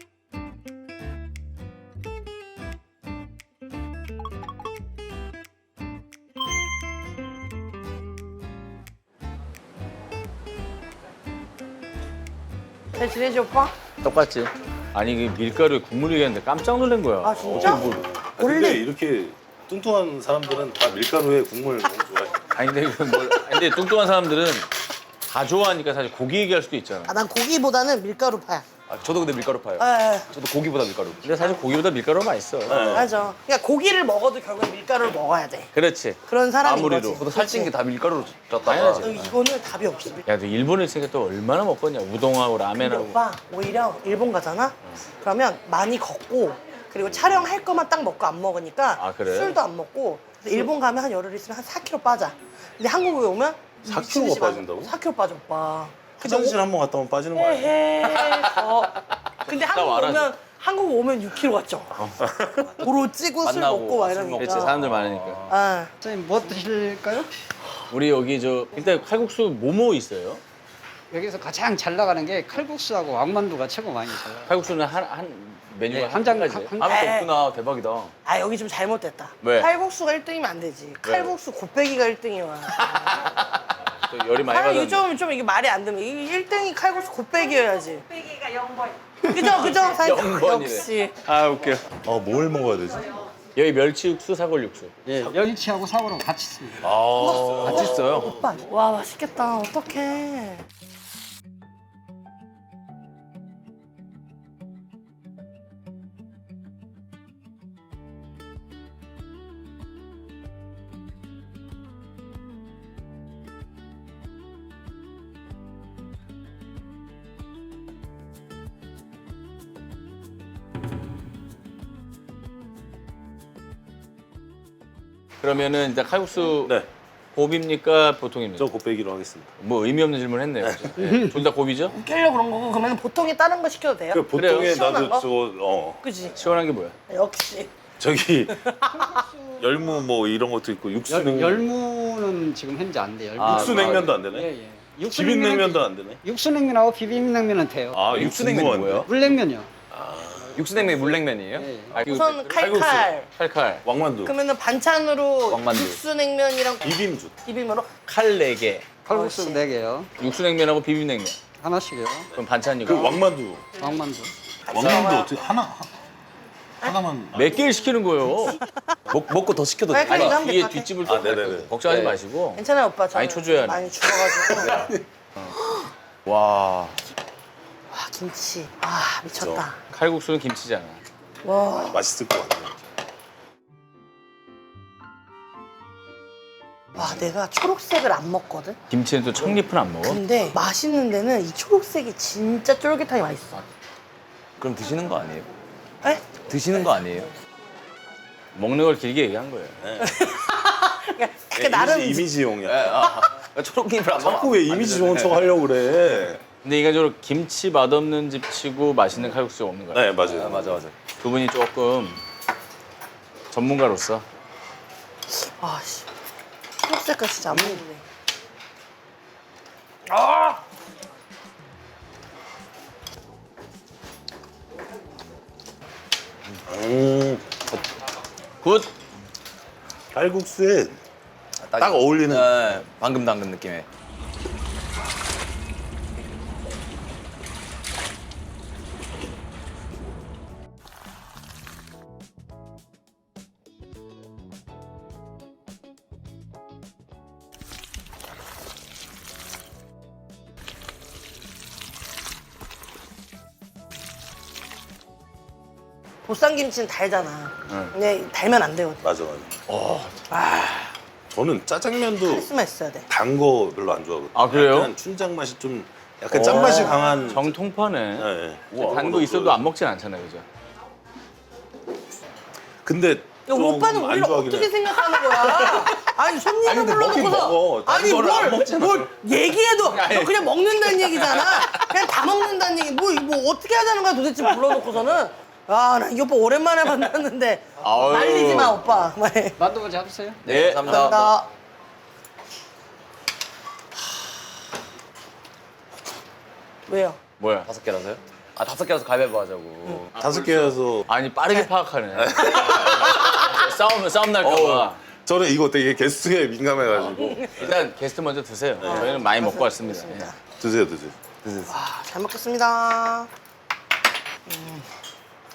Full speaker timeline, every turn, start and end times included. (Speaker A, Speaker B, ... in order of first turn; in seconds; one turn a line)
Speaker A: 12.9-13.7
Speaker B: 14.0-18.0
Speaker A: 17.2-18.8
Speaker C: 17.4-22.4
Speaker B: 22.5-24.7
Speaker B: 25.3-27.2
Speaker A: 27.1-28.6
Speaker D: 28.9-31.2
Speaker A: 29.8-30.3
Speaker B: 31.2-32.9
Speaker C: 32.7-33.1
Speaker A: 32.9-35.7
Speaker B: 35.7-37.2
Speaker A: 36.2-37.7
Speaker D: 37.1-39.3
Speaker B: 38.6-39.2
Speaker A: 38.7-40.2
Speaker B: 40.2-43.1
Speaker A: 42.7-56.6
Speaker C: 47.1-47.5
Speaker B: 49.0-49.6
Speaker C: 53.8-54.9
Speaker C: 56.2-57.8
Speaker A: 57.3-58.9
Speaker B: 58.1-58.5
Speaker A: 59.4-62.0
Speaker B: 59.5-60.3
Speaker B: 62.0-62.2
Speaker C: 62.2-62.7
Speaker A: 62.6-64.7
Speaker D: 63.4-65.5
Speaker B: 64.4-65.4
Speaker A: 65.5-65.9
Speaker E: 66.0-67.3
Speaker B: 67.9-70.4
Speaker E: 71.1-74.5
Speaker B: 74.5-78.1
Speaker E: 75.9-77.0
Speaker A: 76.8-77.3
Speaker A: 78.2-83.2
Speaker B: 79.4-79.7
Speaker B: 81.0-81.3
Speaker B: 83.0-83.4
Speaker B: 84.0-85.0
Speaker A: 84.4-88.6
Speaker A: 89.3-91.1
Speaker B: 89.5-91.8
Speaker C: 92.0-93.2
Speaker B: 93.5-94.9
Speaker E: 95.0-96.8
Speaker C: 96.8-98.5
Speaker D: 96.8-98.4
Speaker A: 97.2-100.6
Speaker B: 125.4-126.8
Speaker B: 127.3-128.7
Speaker C: 128.6-129.5
Speaker B: 129.6-131.9
Speaker C: 130.6-130.9
Speaker A: 131.9-135.3
Speaker C: 134.1-136.0
Speaker B: 134.3-134.8
Speaker A: 136.0-136.5
Speaker B: 136.3-136.9
Speaker A: 137.1-137.7
Speaker C: 138.0-138.6
Speaker A: 138.6-139.2
Speaker C: 139.6-141.7
Speaker E: 141.1-148.1
Speaker D: 143.4-144.1
Speaker C: 143.4-144.5
Speaker C: 145.1-146.2
Speaker C: 147.9-149.1
Speaker D: 148.1-149.1
Speaker E: 149.1-149.7
Speaker C: 149.9-150.8
Speaker D: 150.6-151.7
Speaker E: 150.9-152.0
Speaker B: 151.9-153.8
Speaker A: 152.0-153.3
Speaker C: 152.6-153.1
Speaker C: 153.8-154.3
Speaker A: 154.2-156.9
Speaker D: 155.5-156.0
Speaker C: 156.8-157.4
Speaker A: 157.4-157.9
Speaker B: 158.1-158.9
Speaker E: 159.0-160.1
Speaker A: 159.1-159.6
Speaker B: 160.2-161.4
Speaker E: 161.6-162.3
Speaker B: 162.3-163.2
Speaker C: 162.3-163.6
Speaker E: 163.8-164.3
Speaker A: 164.6-165.3
Speaker C: 164.7-165.9
Speaker C: 166.8-167.4
Speaker B: 167.3-168.6
Speaker D: 169.1-170.4
Speaker A: 169.9-170.9
Speaker B: 170.1-173.9
Speaker C: 171.0-171.7
Speaker D: 171.8-172.2
Speaker A: 172.5-174.9
Speaker C: 174.2-175.0
Speaker D: 174.6-174.9
Speaker A: 175.5-175.9
Speaker D: 176.3-176.7
Speaker A: 177.9-179.8
Speaker C: 179.3-179.6
Speaker B: 179.9-181.0
Speaker A: 181.4-182.0
Speaker C: 181.8-182.7
Speaker A: 187.0-188.8
Speaker B: 188.9-190.2
Speaker A: 189.4-193.6
Speaker D: 194.6-195.5
Speaker A: 196.0-196.3
Speaker D: 196.4-197.3
Speaker B: 198.5-199.8
Speaker C: 199.8-200.1
Speaker A: 200.0-202.3
Speaker C: 201.5-203.0
Speaker D: 202.6-205.5
Speaker C: 204.2-206.4
Speaker B: 206.6-210.1
Speaker C: 209.9-210.8
Speaker D: 210.2-210.9
Speaker B: 211.2-212.2
Speaker B: 213.5-214.2
Speaker A: 215.3-216.1
Speaker A: 216.8-218.0
Speaker A: 220.1-220.6
Speaker C: 226.7-227.4
Speaker B: 228.6-228.9
Speaker C: 230.1-231.0
Speaker D: 231.6-233.9
Speaker C: 231.8-232.8
Speaker A: 256.2-259.0
Speaker B: 257.7-257.9
Speaker C: 259.0-259.5
Speaker B: 259.7-260.7
Speaker C: 261.3-262.5
Speaker A: 262.2-263.1
Speaker C: 263.1-267.5
Speaker B: 264.3-264.9
Speaker B: 266.3-270.4
Speaker A: 266.4-267.0
Speaker C: 268.2-269.6
Speaker C: 272.8-276.1
Speaker A: 273.5-289.6
Speaker C: 276.6-279.1
Speaker B: 279.8-281.9
Speaker B: 287.8-288.9
Speaker E: 289.6-290.4
Speaker B: 290.4-291.3
Speaker D: 290.4-291.3
Speaker A: 290.8-291.5
Speaker A: 296.9-297.2
Speaker B: 297.4-297.7
Speaker D: 297.6-300.1
Speaker B: 300.1-305.0
Speaker C: 300.1-301.1
Speaker C: 302.1-303.4
Speaker C: 304.4-307.8
Speaker B: 307.5-310.3
Speaker C: 308.8-309.1
Speaker A: 308.8-310.4
Speaker C: 310.6-311.1
Speaker D: 311.4-311.7
Speaker A: 311.7-313.3
Speaker A: 314.5-314.9